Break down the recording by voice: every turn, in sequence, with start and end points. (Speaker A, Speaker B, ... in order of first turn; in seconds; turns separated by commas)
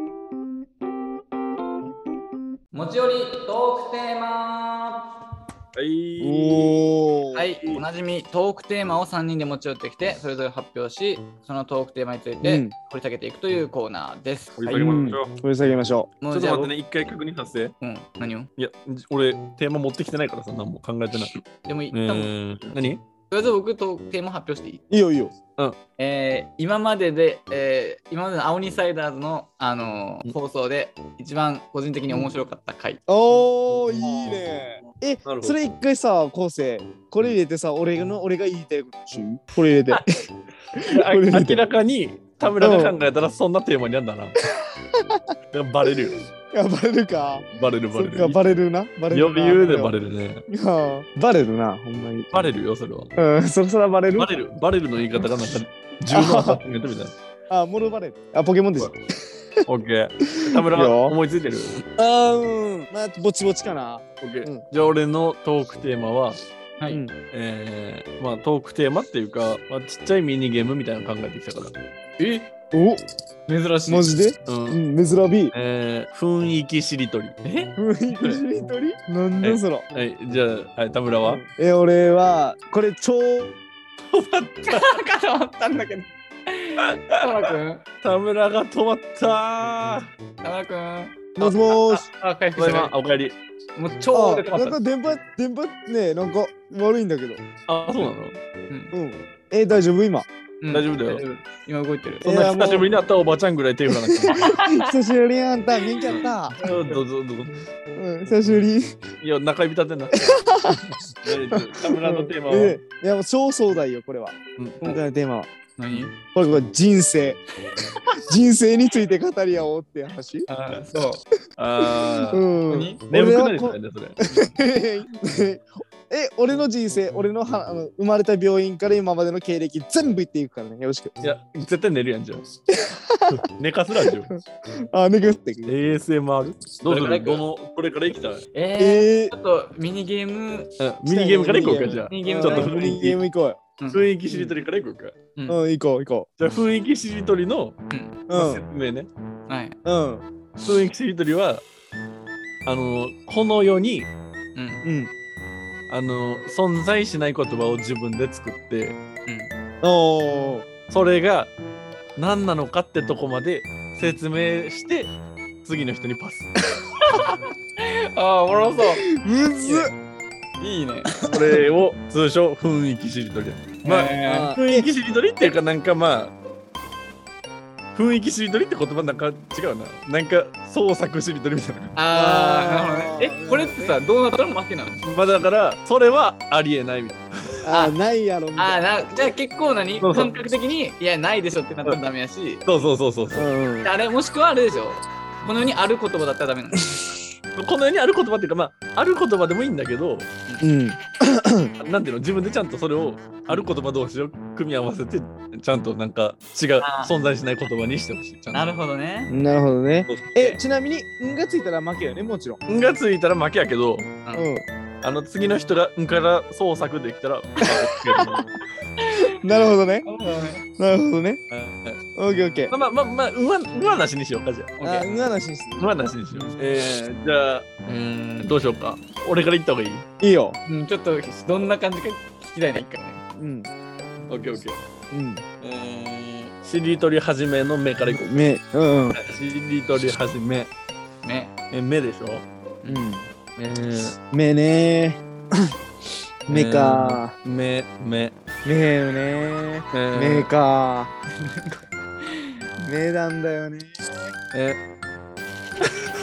Speaker A: 2.7-5.0, Speaker B: 5.7-6.9, Speaker C: 6.2-7.4, Speaker A: 7.3-14.7, Speaker C: 12.4-12.7, Speaker B: 14.6-15.4, Speaker C: 14.7-16.1, Speaker A: 16.2-16.7, Speaker B: 16.3-17.7, Speaker A: 17.8-18.5, Speaker B: 18.6-21.4, Speaker A: 21.6-22.3, Speaker B: 21.9-23.0, Speaker A: 23.3-24.8, Speaker C: 24.9-25.3, Speaker A: 26.0-33.0, Speaker C: 33.1-40.1, Speaker B: 34.0-34.4, Speaker B: 35.2-35.6, Speaker B: 40.7-44.4, Speaker C: 40.7-41.6, Speaker C: 42.5-43.0, Speaker C: 44.9-45.2, Speaker B: 45.5-46.2, Speaker C: 46.4-49.9, Speaker B: 47.5-48.4, Speaker B: 49.1-50.4, Speaker C: 50.5-52.3, Speaker B: 52.3-53.1, Speaker C: 53.2-54.3, Speaker B: 54.2-57.1, Speaker C: 56.1-56.6, Speaker C: 57.5-58.9, Speaker B: 59.6-61.8, Speaker C: 60.3-61.1, Speaker C: 61.9-64.6, Speaker B: 64.2-66.4, Speaker C: 66.9-67.1, Speaker B: 67.3-71.7, Speaker A: 72.2-72.5, Speaker C: 72.7-73.0, Speaker A: 73.5-74.1, Speaker C: 73.9-75.5, Speaker B: 74.5-74.8, Speaker B: 75.5-78.4, Speaker C: 77.8-79.8, Speaker B: 79.4-81.4, Speaker C: 81.2-83.6, Speaker B: 84.0-85.0, Speaker A: 84.7-87.8, Speaker B: 86.8-90.1, Speaker A: 90.4-92.9, Speaker C: 91.3-92.0, Speaker B: 92.5-93.3, Speaker A: 93.8-94.8, Speaker C: 94.1-97.4, Speaker B: 97.7-98.3, Speaker C: 98.9-100.3, Speaker A: 100.6-102.2, Speaker B: 100.7-101.2, Speaker C: 102.2-102.9, Speaker B: 102.2-104.5, Speaker C: 104.1-106.6, Speaker A: 104.3-104.8, Speaker B: 106.1-107.6, Speaker A: 106.5-107.0, Speaker C: 107.9-108.9, Speaker B: 108.3-108.6, Speaker B: 109.2-112.8, Speaker C: 110.2-110.8, Speaker C: 111.5-115.5, Speaker B: 114.6-114.8, Speaker A: 115.8-116.1, Speaker C: 116.3-117.4, Speaker C: 118.2-120.5, Speaker A: 120.5-121.2, Speaker B: 121.6-122.4, Speaker C: 121.8-131.1, Speaker A: 122.7-123.0, Speaker B: 123.1-124.2, Speaker A: 124.3-124.5, Speaker B: 131.2-132.4, Speaker C: 132.7-133.4, Speaker B: 133.3-134.3, Speaker C: 134.0-135.7, Speaker B: 135.7-138.4, Speaker A: 136.9-137.4, Speaker A: 138.5-140.7, Speaker C: 138.8-139.3, Speaker B: 140.8-143.2, Speaker C: 141.0-143.6, Speaker A: 142.0-142.8, Speaker A: 143.8-144.5, Speaker B: 143.9-145.2, Speaker C: 145.5-146.3, Speaker B: 146.4-147.8, Speaker A: 147.9-148.2, Speaker C: 148.3-148.6, Speaker B: 148.3-149.1, Speaker A: 149.5-149.8, Speaker C: 149.8-150.2, Speaker B: 150.6-151.6, Speaker B: 152.7-154.1, Speaker A: 154.6-154.8, Speaker C: 154.8-155.1, Speaker B: 155.9-159.0, Speaker A: 159.2-159.5, Speaker C: 159.8-160.7, Speaker B: 160.9-161.5, Speaker B: 162.2-165.1, Speaker B: 165.6-166.6, Speaker A: 167.0-169.1, Speaker C: 169.1-169.9, Speaker A: 169.6-169.9, Speaker A: 170.6-171.2, Speaker C: 171.2-171.6, Speaker B: 171.3-176.3, Speaker A: 173.8-174.5, Speaker C: 174.3-174.9, Speaker B: 177.9-181.9, Speaker A: 181.9-185.0, Speaker C: 182.1-183.9, Speaker B: 185.0-187.6, Speaker C: 187.6-189.3, Speaker A: 187.7-187.9, Speaker A: 188.6-192.6, Speaker B: 190.0-190.3, Speaker B: 192.6-193.5, Speaker C: 193.3-193.9, Speaker A: 193.8-197.0, Speaker B: 197.6-200.3, Speaker C: 200.6-201.7, Speaker B: 201.8-208.7, Speaker A: 206.8-207.1, Speaker A: 208.5-209.3, Speaker C: 209.3-212.6, Speaker B: 212.7-214.1, Speaker C: 214.3-214.6, Speaker B: 215.0-218.6, Speaker C: 217.6-218.3, Speaker A: 219.0-219.3, Speaker C: 219.2-220.1, Speaker A: 220.0-220.6, Speaker C: 220.7-221.4, Speaker B: 221.5-222.0, Speaker C: 222.2-222.7, Speaker B: 222.7-225.1, Speaker C: 224.8-226.5, Speaker B: 225.8-227.9, Speaker A: 227.9-228.5, Speaker B: 228.4-230.0, Speaker C: 230.2-230.6, Speaker A: 230.7-233.2, Speaker C: 233.3-233.7, Speaker B: 234.3-234.8, Speaker C: 235.1-235.4, Speaker B: 235.6-238.2, Speaker C: 238.0-239.2, Speaker B: 239.1-240.7, Speaker A: 241.2-241.5, Speaker B: 241.7-242.4, Speaker C: 242.8-243.3, Speaker B: 243.6-244.2, Speaker C: 244.2-245.7, Speaker C: 246.5-247.3, Speaker B: 246.5-248.3, Speaker C: 248.6-251.1, Speaker B: 249.9-250.5, Speaker A: 251.4-252.5, Speaker C: 252.8-254.3, Speaker B: 254.5-254.8